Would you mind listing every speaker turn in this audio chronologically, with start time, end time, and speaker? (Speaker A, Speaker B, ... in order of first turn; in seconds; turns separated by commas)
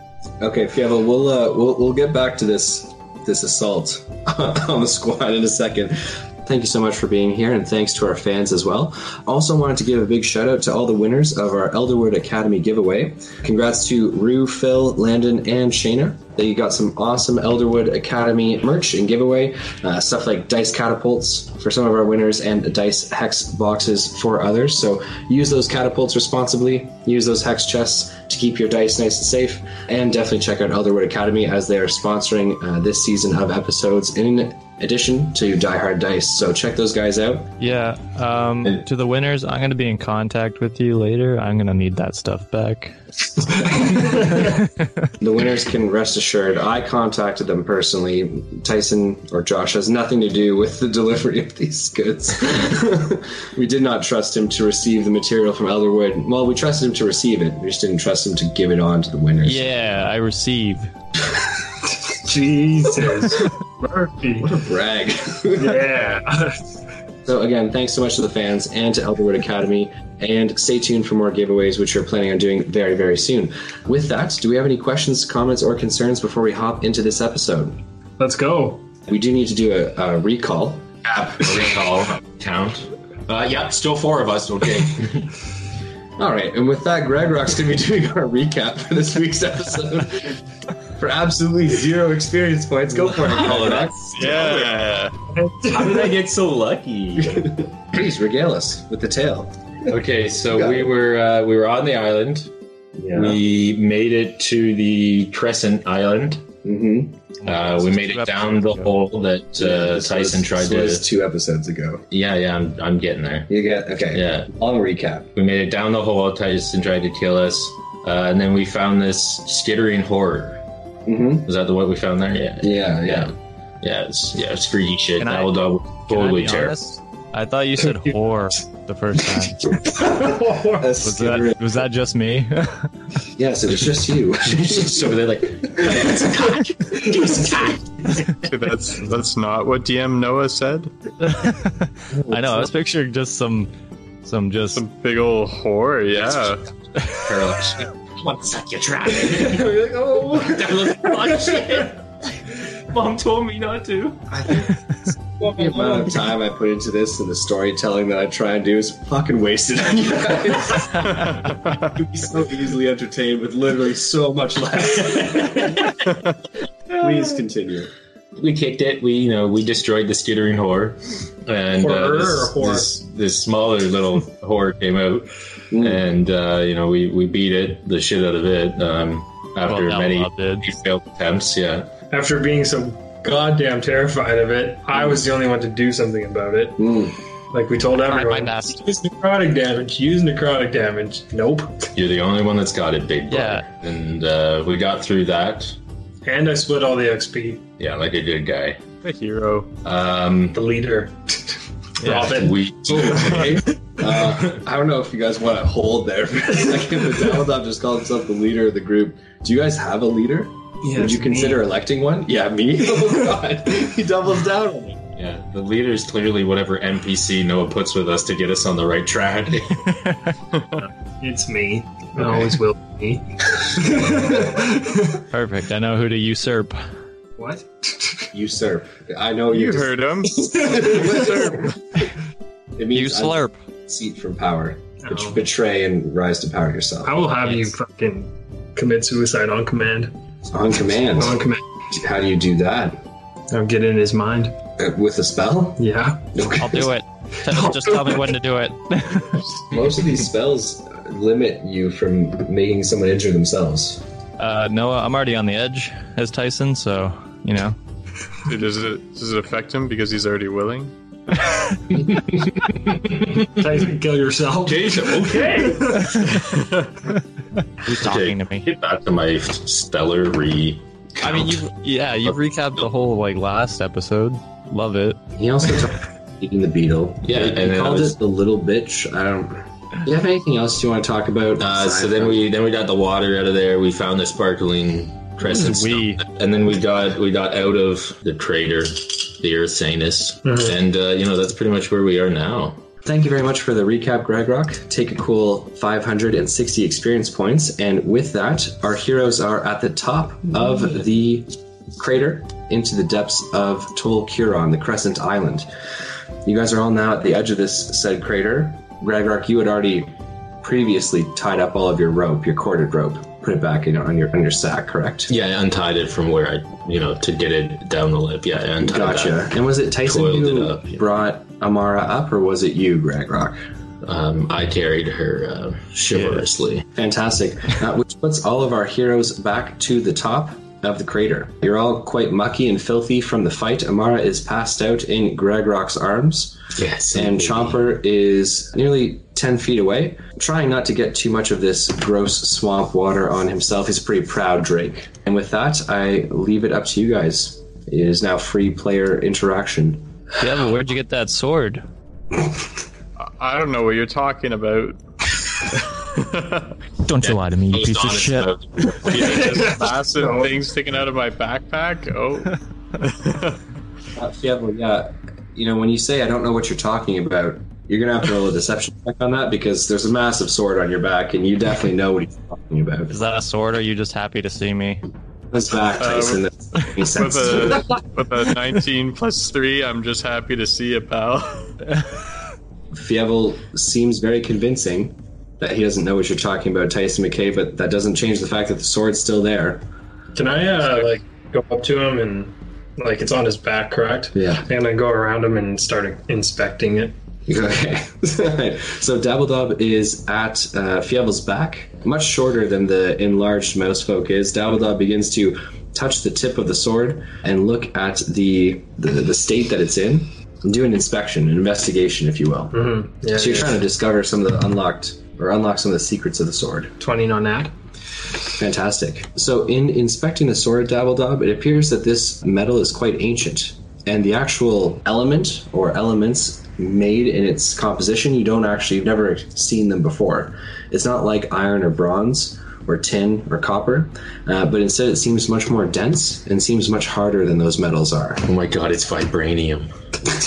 Speaker A: 0.4-37.5, Speaker B: 37.6-43.0, Speaker A: 45.2-59.7, Speaker B: 59.4-60.9, Speaker C: 61.9-64.5, Speaker A: 64.4-65.9, Speaker C: 65.5-66.7, Speaker A: 67.2-77.8, Speaker C: 78.2-78.9, Speaker A: 79.1-81.7, Speaker D: 81.2-85.4, Speaker A: 86.2-90.4, Speaker A: 91.0-94.5, Speaker D: 93.1-94.8, Speaker E: 94.2-95.2, Speaker C: 95.3-96.1, Speaker D: 95.6-97.6, Speaker A: 97.2-99.9, Speaker D: 99.9-102.5, Speaker A: 100.5-100.9, Speaker A: 103.0-103.4, Speaker D: 103.1-106.4, Speaker A: 106.6-107.2, Speaker B: 107.4-108.9, Speaker D: 107.4-111.0, Speaker A: 109.5-112.0, Speaker D: 112.1-113.5, Speaker A: 113.5-115.3, Speaker D: 114.1-114.5, Speaker D: 115.3-120.6, Speaker A: 121.0-121.5, Speaker D: 121.4-126.8, Speaker A: 122.6-123.3, Speaker B: 125.2-129.7, Speaker A: 129.8-131.7, Speaker C: 130.0-130.9, Speaker B: 131.0-132.9, Speaker A: 133.3-137.7, Speaker D: 134.5-138.3, Speaker E: 138.4-140.9, Speaker B: 141.2-143.7, Speaker A: 142.1-142.7, Speaker B: 144.2-144.8, Speaker E: 144.7-146.6, Speaker D: 146.2-149.8, Speaker A: 149.2-151.6, Speaker D: 150.3-154.5, Speaker A: 154.3-154.8, Speaker A: 155.4-166.0, Speaker A: 166.9-167.9, Speaker D: 168.3-181.9, Speaker C: 171.7-172.9, Speaker A: 175.7-176.0, Speaker B: 179.7-180.7, Speaker C: 182.1-186.9, Speaker A: 186.8-187.2, Speaker C: 187.5-191.9, Speaker B: 188.1-188.8, Speaker D: 191.9-195.8, Speaker B: 193.3-193.6, Speaker C: 196.2-197.6, Speaker D: 197.8-198.8, Speaker E: 199.0-199.7, Speaker D: 199.8-200.6, Speaker C: 200.5-203.0, Speaker B: 202.0-202.5, Speaker D: 202.1-203.7, Speaker A: 202.9-215.0, Speaker C: 210.8-211.6, Speaker D: 215.2-219.9, Speaker E: 220.5-220.8, Speaker C: 221.2-225.2, Speaker D: 222.2-222.5, Speaker B: 225.3-226.8, Speaker C: 227.4-228.3, Speaker A: 228.3-231.7, Speaker E: 229.5-231.7, Speaker C: 230.4-231.4, Speaker A: 232.8-237.3, Speaker B: 232.9-233.6, Speaker C: 235.0-235.4, Speaker C: 237.0-240.2, Speaker A: 240.5-243.0, Speaker C: 241.2-241.6, Speaker C: 243.5-244.6, Speaker A: 244.8-246.9, Speaker C: 245.8-246.3, Speaker B: 246.6-249.4, Speaker A: 249.7-254.0, Speaker B: 254.4-257.8, Speaker E: 258.4-260.9, Speaker C: 263.4-266.2, Speaker D: 264.6-266.3, Speaker E: 266.3-266.9, Speaker B: 267.8-268.7, Speaker D: 267.9-271.6, Speaker B: 271.2-275.2, Speaker D: 272.2-272.8, Speaker A: 275.3-282.4, Speaker D: 277.2-278.2, Speaker D: 281.6-292.8, Speaker B: 285.4-286.2, Speaker C: 290.4-290.7, Speaker A: 293.0-305.7, Speaker A: 306.4-315.3, Speaker D: 315.3-319.5, Speaker A: 318.8-323.6, Speaker D: 320.0-321.0, Speaker D: 324.0-326.8, Speaker A: 326.9-336.6, Speaker D: 336.8-337.8, Speaker A: 337.1-350.1, Speaker B: 350.4-351.8, Speaker E: 353.2-356.7, Speaker B: 357.0-358.5, Speaker D: 357.2-359.8, Speaker E: 359.1-363.6, Speaker C: 359.1-360.6, Speaker A: 364.1-373.1, Speaker B: 373.1-375.0, Speaker A: 375.5-378.0, Speaker E: 376.0-376.4, Speaker E: 377.0-381.7, Speaker A: 382.9-389.8, Speaker C: 390.3-397.1, Speaker A: 394.3-394.6, Speaker A: 397.5-416.9, Speaker C: 412.7-413.7, Speaker C: 417.0-417.7, Speaker A: 418.5-438.4, Speaker D: 438.4-439.9